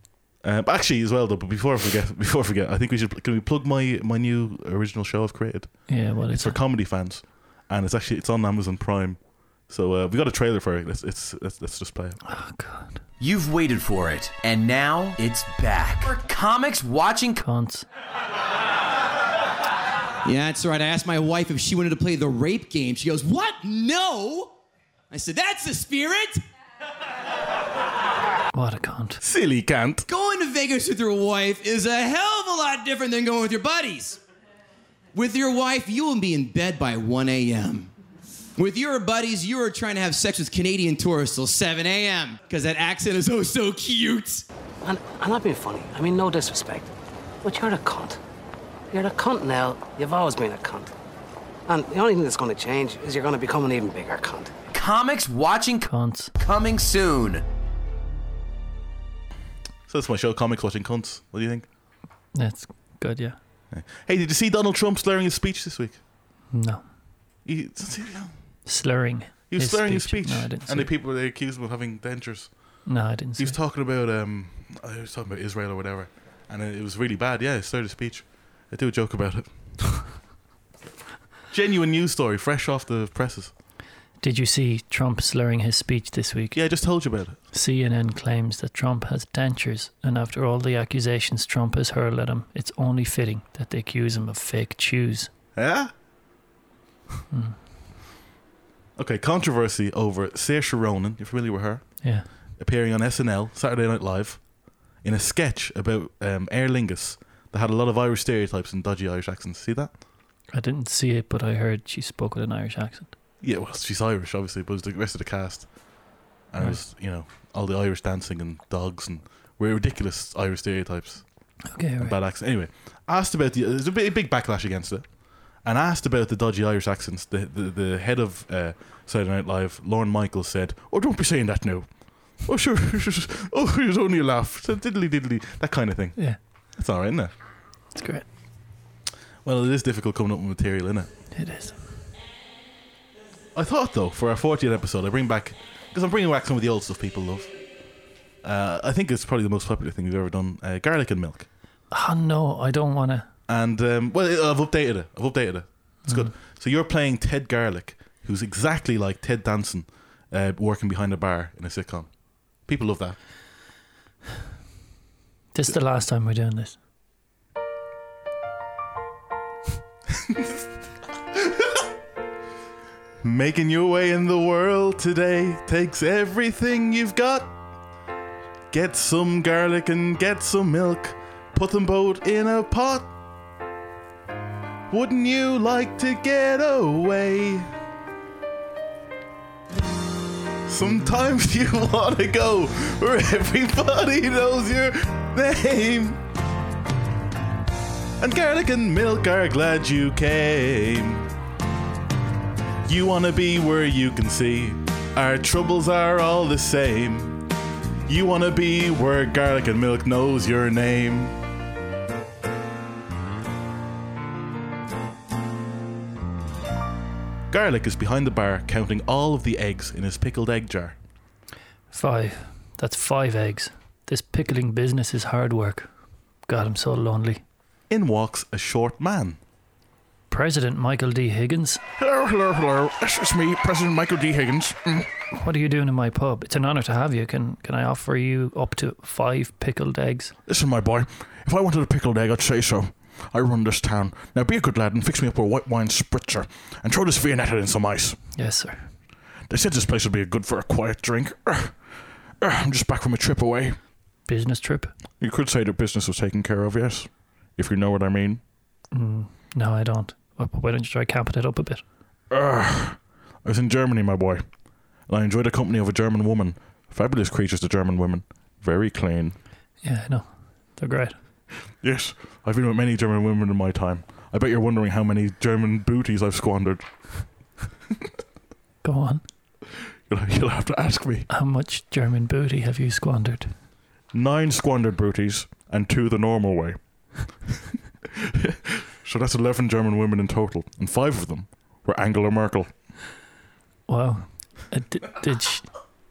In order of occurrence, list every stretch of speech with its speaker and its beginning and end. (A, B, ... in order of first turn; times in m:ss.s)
0:00.4-0:12.2 A
0:05.9-0:06.6 B
0:12.2-0:13.0 B
0:13.2-0:17.4 C
0:17.4-0:17.8 B
0:20.2-0:24.5 D
0:25.1-0:26.4 D
0:28.5-0:29.2 B
0:29.2-0:30.1 A
0:30.1-0:34.2 D
0:35.1-0:37.9 D
0:38.6-0:44.4 D
0:44.8-0:46.9 E
0:47.4-0:48.2 E
0:48.9-0:50.9 E
0:51.7-0:54.5 E
0:54.7-0:57.4 C
0:55.8-0:56.3 B
0:59.9-1:01.6 A
1:02.3-1:03.4 B
1:03.7-1:06.0 A
1:06.5-1:06.8 B
1:07.4-1:08.3 A
1:08.6-1:10.9 B
1:09.5-1:12.5 A
1:12.8-1:13.6 B
1:13.4-1:20.0 A
1:21.5-1:23.5 A
1:24.2-1:26.6 B
1:26.5-1:27.4 A
1:27.5-1:35.3 B
1:35.5-1:35.9 A
1:37.3-1:37.6 B
1:39.0-1:42.0 A
1:42.0-1:42.3 B
1:42.6-1:44.5 A
1:45.0-1:49.9 A
1:50.5-1:53.1 B
1:53.4-1:55.7 A
1:56.5-2:01.2 A
2:01.7-2:02.2 B
2:02.0-2:05.0 A
2:05.6-2:17.3 A
2:17.9-2:18.2 B
2:19.4-2:21.1 A
2:21.3-2:21.8 B
2:23.5-2:27.5 A
2:28.4-2:31.5 A
2:31.9-2:33.2 B
2:33.5-2:42.1 A
2:42.6-2:43.2 A
2:45.5-2:46.8 B
2:50.3-2:50.6 A
2:53.2-2:57.5 A
2:58.7-3:03.1 A
3:04.9-3:07.7 A
3:10.7-3:16.2 A
3:18.2-3:21.3 A
3:22.9-3:27.4 A
3:28.1-3:31.4 A
3:37.5-3:41.0 A
3:41.9-3:45.9 B
3:46.4-3:47.4 B
3:47.9-3:49.4 A
3:50.3-3:51.8 B
3:52.0-3:55.1 A
3:55.3-4:00.3 B
4:00.4-4:08.2 A
4:08.3-4:08.9 B
4:09.5-4:11.8 A
4:12.4-4:13.8 A
4:14.2-4:14.9 B
4:15.2-4:18.4 A
4:18.9-4:21.8 B
4:22.3-4:24.4 A
4:25.1-4:29.4 A
4:29.8-4:31.2 B
4:31.8-4:36.9 A
4:38.8-4:39.2 B
4:40.1-4:41.3 A
4:41.3-4:43.5 B
4:44.1-4:46.8 A
4:48.1-4:52.7 A
4:53.9-4:55.6 B